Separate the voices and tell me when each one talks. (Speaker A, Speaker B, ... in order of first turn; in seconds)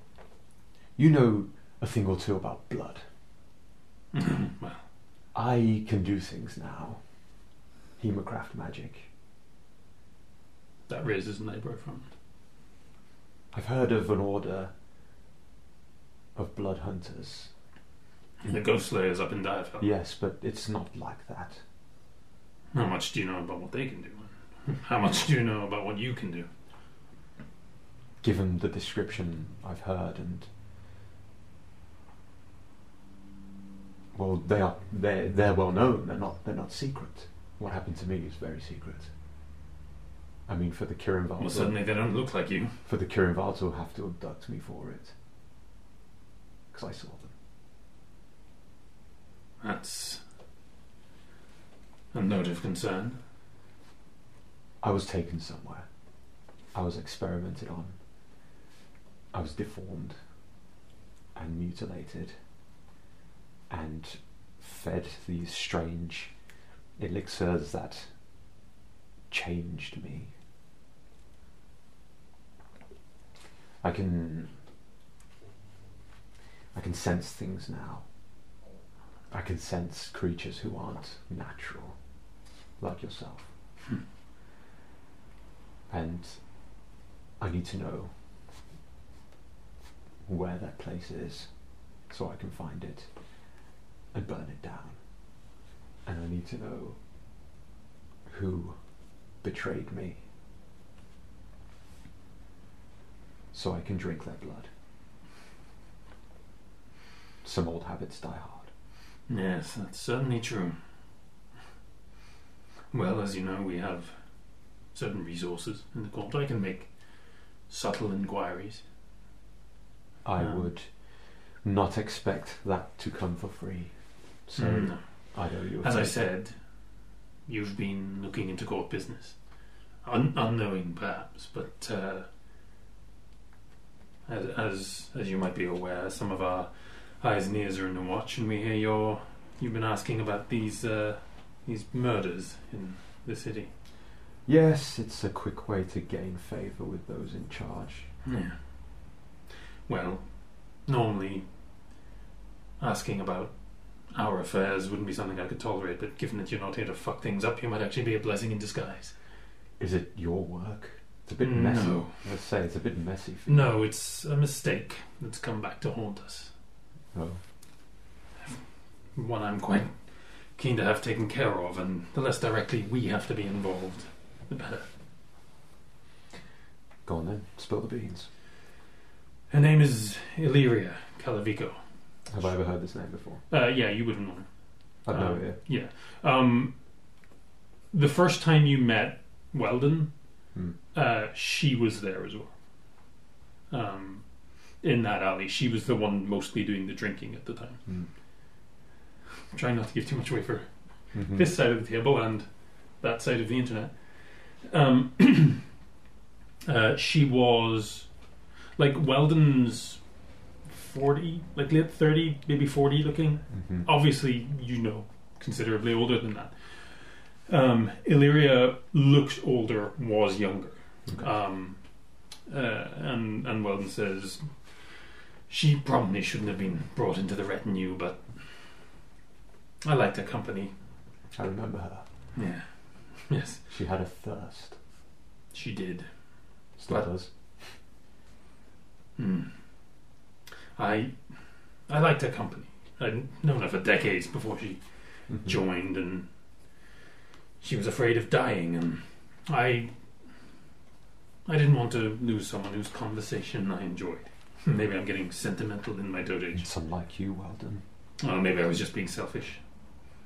Speaker A: 1.0-3.0, 5.3-7.0, 8.0-9.1, 13.5-14.7, 16.4-17.5, 19.8-21.6, 28.2-30.5, 34.1-39.1, 40.5-41.8, 42.9-45.1, 46.7-47.3, 54.8-55.9, 56.7-58.0, 59.3-60.2, 61.4-62.4, 63.7-66.3, 67.0-68.1, 69.3-70.3, 73.8-74.5, 76.7-78.0, 79.3-82.0, 82.8-83.5, 85.9-86.4, 87.4-88.1, 90.3-91.5, 92.1-93.1, 94.1-95.0, 96.1-97.0, 98.3-98.8, 99.4-100.2, 103.5-104.7, 107.4-108.7, 120.2-121.0, 121.6-123.9, 124.5-126.2, 144.5-148.1, 159.8-163.7, 167.1-167.4, 177.1-178.3, 182.3-183.4, 185.1-185.6, 201.2-201.5, 213.6-213.9, 231.3-232.1, 233.7-234.8, 236.8-237.3, 245.3-245.6, 256.6-257.8
Speaker B: 4.1-4.8, 10.9-12.1, 18.4-19.9, 22.7-26.5, 41.4-42.8, 49.6-50.2, 52.1-53.2, 109.3-110.8, 112.9-114.2, 114.9-116.9, 117.7-118.8, 120.4-120.6, 124.6-125.0, 125.8-126.6, 127.5-129.4, 130.0-132.3, 134.3-143.7, 148.2-148.6, 149.9-151.5, 152.8-153.5, 154.1-159.1, 161.4-162.1, 163.5-166.5, 169.2-174.9, 179.5-181.8, 183.5-184.5, 185.1-186.7, 187.9-190.1, 190.9-192.5, 193.7-194.2, 194.8-197.8, 199.5-202.5, 203.0-205.7, 206.7-208.1, 208.8-210.0, 210.7-221.8, 222.5-225.0, 225.5-228.4, 229.8-230.7, 232.3-233.6, 235.5-236.1, 239.2-239.5, 240.8-241.4, 241.9-244.8, 245.3-246.3, 247.6-249.9, 251.5-256.7, 258.2-259.6